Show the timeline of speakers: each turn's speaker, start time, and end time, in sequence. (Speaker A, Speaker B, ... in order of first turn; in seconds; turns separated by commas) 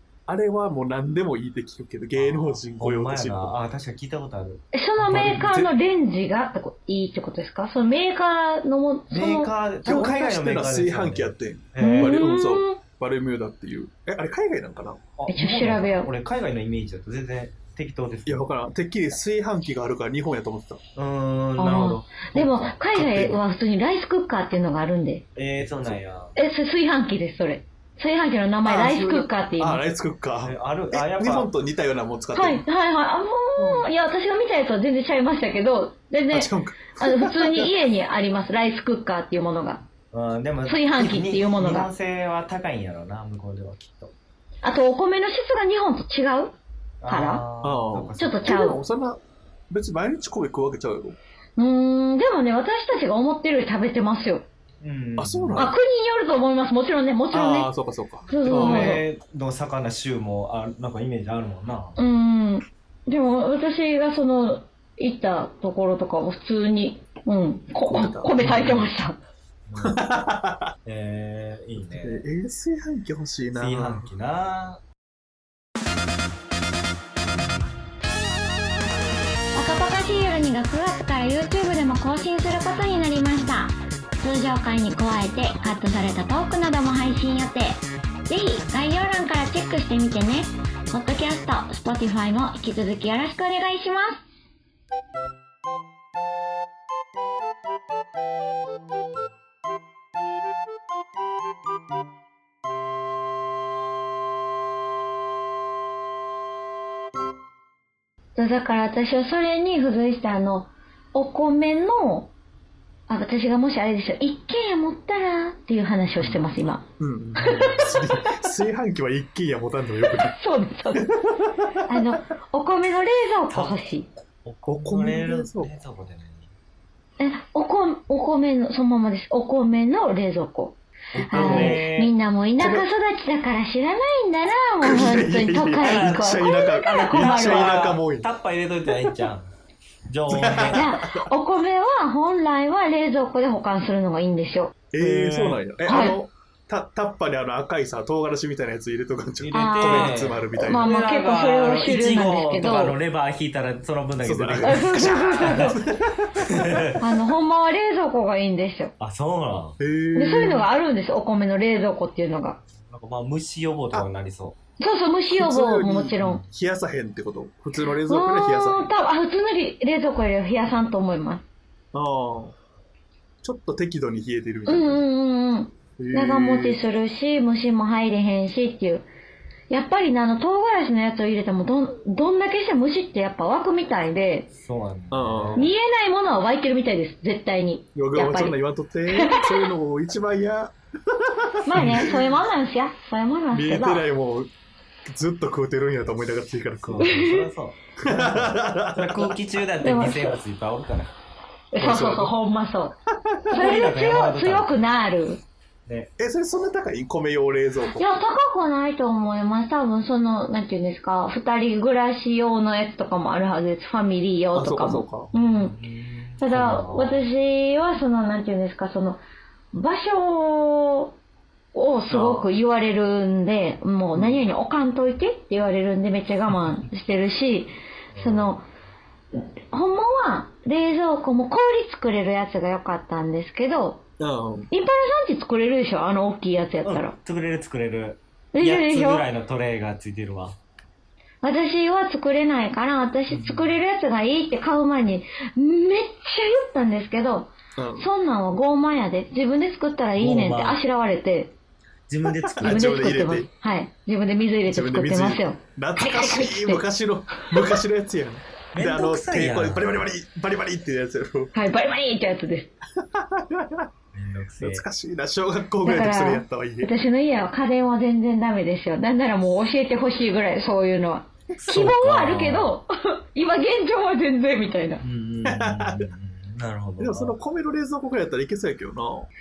Speaker A: 0.3-3.5, Speaker B: 2.2-5.5, Speaker C: 4.7-9.5, Speaker A: 5.1-5.7, Speaker B: 9.1-12.2, Speaker A: 9.8-15.0, Speaker C: 11.8-12.8, Speaker B: 15.2-18.5, Speaker C: 15.3-16.1, Speaker A: 18.3-20.8, Speaker B: 21.0-22.7, Speaker C: 21.6-25.2, Speaker A: 22.4-23.4, Speaker B: 25.4-26.4, Speaker A: 25.6-26.0, Speaker C: 26.4-29.9, Speaker A: 28.6-32.7, Speaker B: 30.4-31.5, Speaker C: 32.3-39.9, Speaker A: 33.6-33.9, Speaker A: 36.3-37.7, Speaker B: 40.1-44.1, Speaker C: 40.7-41.9, Speaker C: 44.6-46.6, Speaker B: 47.0-48.6, Speaker C: 47.1-47.4, Speaker A: 47.6-51.2, Speaker C: 48.2-48.8, Speaker C: 51.6-54.5, Speaker B: 54.8-55.7, Speaker A: 55.2-55.7, Speaker C: 55.5-57.7, Speaker A: 57.3-59.0, Speaker C: 58.3-59.0, Speaker B: 58.5-62.0, Speaker C: 62.0-69.2, Speaker A: 67.8-68.4, Speaker B: 68.4-68.9, Speaker B: 69.7-70.0, Speaker A: 69.8-70.7, Speaker B: 70.9-72.2, Speaker A: 71.8-74.1, Speaker B: 73.5-74.8, Speaker C: 79.5-94.2, Speaker C: 108.4-112.3, Speaker C: 113.1-116.8, Speaker A: 117.0-120.3, Speaker C: 117.4-117.8, Speaker B: 117.5-117.8, Speaker C: 120.3-121.1, Speaker A: 120.9-121.6, Speaker C: 121.9-124.1, Speaker B: 123.5-123.8, Speaker B: 124.5-126.5, Speaker A: 124.7-125.7, Speaker C: 127.2-137.9, Speaker B: 131.1-132.1, Speaker A: 131.2-131.8, Speaker A: 132.6-132.9, Speaker A: 134.8-138.3, Speaker B: 135.8-139.5, Speaker B: 140.1-140.8, Speaker A: 140.3-141.2, Speaker C: 140.7-144.8, Speaker A: 144.9-150.8, Speaker B: 145.0-145.6, Speaker C: 145.9-146.2, Speaker B: 149.4-155.8, Speaker C: 149.5-153.0, Speaker A: 154.2-156.5, Speaker C: 154.6-155.8, Speaker B: 156.5-157.0, Speaker C: 157.0-158.9, Speaker B: 159.0-159.8, Speaker A: 159.8-160.7, Speaker C: 160.2-162.6, Speaker B: 162.9-164.6, Speaker C: 164.8-166.4, Speaker A: 165.3-168.9, Speaker B: 166.2-166.5, Speaker C: 168.1-171.4, Speaker A: 171.9-172.6, Speaker A: 173.4-175.0, Speaker C: 174.7-179.1, Speaker A: 176.0-176.8, Speaker C: 179.7-184.5, Speaker B: 184.5-185.7, Speaker A: 185.1-185.7, Speaker C: 185.6-188.6, Speaker A: 187.9-192.2, Speaker C: 189.1-189.6, Speaker C: 191.7-194.1, Speaker B: 191.8-192.0, Speaker A: 193.5-194.5, Speaker A: 195.1-197.2, Speaker B: 196.8-201.1, Speaker C: 197.0-197.5, Speaker A: 198.1-199.3, Speaker C: 199.8-200.4, Speaker C: 201.7-203.0, Speaker A: 201.8-202.3, Speaker C: 203.5-205.4, Speaker B: 203.5-204.8, Speaker A: 206.2-208.0, Speaker C: 208.0-215.8, Speaker A: 214.5-215.3, Speaker B: 215.4-217.3, Speaker C: 216.4-219.2, Speaker C: 219.7-221.1, Speaker C: 221.7-228.7, Speaker A: 222.1-222.5, Speaker A: 224.2-224.4, Speaker B: 228.1-228.6, Speaker C: 229.3-234.0, Speaker A: 234.2-234.7, Speaker C: 234.7-237.2, Speaker B: 236.8-240.6, Speaker C: 238.5-239.3, Speaker C: 241.4-251.6, Speaker A: 247.8-248.1, Speaker B: 250.2-250.8, Speaker B: 252.1-252.9, Speaker C: 252.6-256.8, Speaker A: 252.6-253.5, Speaker A: 254.7-261.5, Speaker B: 258.7-260.1, Speaker C: 261.5-262.7, Speaker A: 263.0-263.9, Speaker B: 264.1-264.9, Speaker A: 264.6-266.9, Speaker C: 265.8-275.0, Speaker B: 271.6-272.8, Speaker B: 275.0-277.4, Speaker A: 275.4-276.1, Speaker A: 277.0-279.3